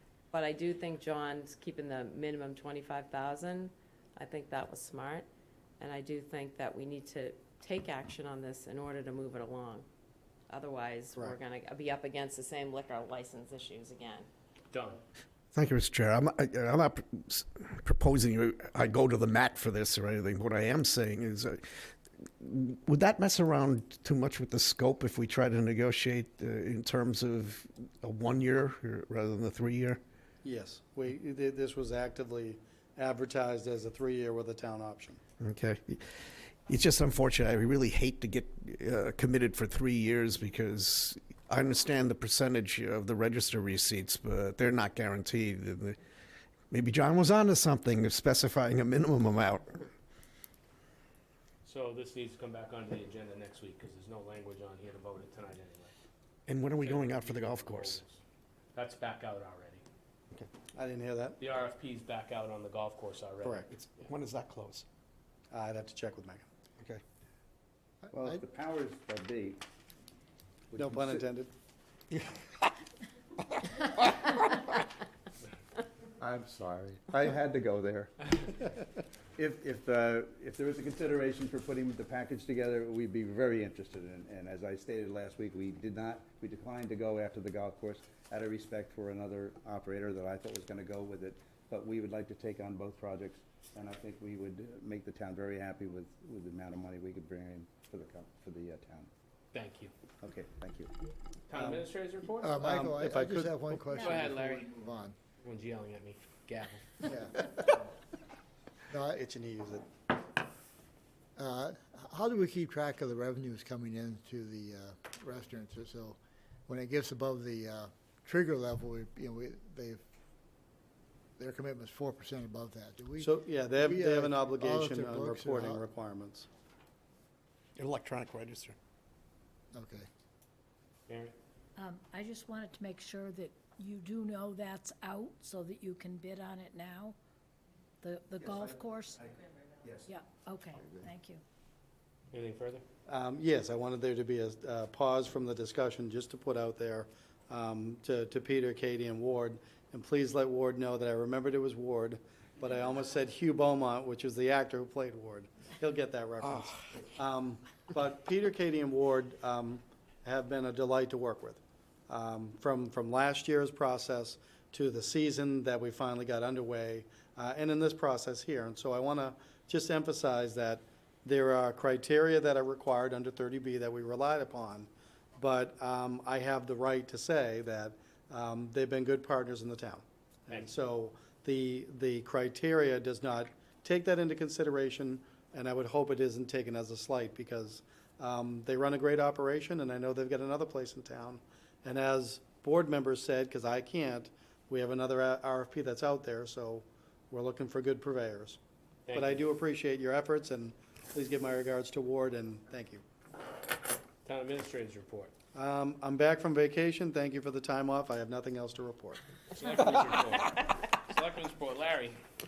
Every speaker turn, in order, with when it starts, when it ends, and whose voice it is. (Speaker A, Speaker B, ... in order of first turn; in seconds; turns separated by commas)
Speaker A: 0.3-5.3, Speaker A: 5.8-9.9, Speaker A: 10.5-14.3, Speaker B: 14.7-15.0, Speaker C: 15.5-21.6, Speaker C: 22.4-30.0, Speaker D: 30.4-35.2, Speaker C: 35.4-46.0, Speaker C: 46.7-49.9, Speaker B: 51.6-55.9, Speaker C: 56.5-58.0, Speaker B: 56.7-58.2, Speaker B: 58.7-59.8, Speaker D: 60.7-61.4, Speaker B: 61.4-64.1, Speaker C: 63.7-64.8, Speaker D: 65.5-66.5, Speaker E: 68.1-68.4, Speaker F: 68.1-69.6, Speaker F: 70.7-71.1, Speaker D: 70.8-71.5, Speaker C: 73.8-74.7, Speaker F: 76.2-78.7, Speaker F: 79.3-99.1, Speaker B: 99.5-99.9, Speaker F: 100.2-100.9, Speaker B: 101.5-102.7, Speaker D: 101.5-101.8, Speaker E: 102.4-105.2, Speaker D: 102.6-103.9, Speaker B: 103.9-104.7, Speaker B: 105.4-107.1, Speaker E: 107.0-107.9, Speaker E: 108.9-109.2, Speaker D: 109.2-109.9, Speaker E: 111.4-120.0, Speaker E: 121.4-125.8, Speaker D: 123.2-126.5, Speaker C: 127.8-128.8, Speaker E: 129.7-130.1, Speaker B: 131.1-131.3, Speaker G: 131.8-137.2, Speaker G: 138.0-139.3, Speaker G: 140.0-141.4, Speaker E: 140.8-141.1, Speaker B: 142.3-142.8, Speaker D: 143.1-198.6, Speaker B: 199.1-199.4, Speaker D: 199.1-203.0, Speaker B: 204.2-205.3, Speaker D: 205.6-209.2, Speaker B: 209.6-212.2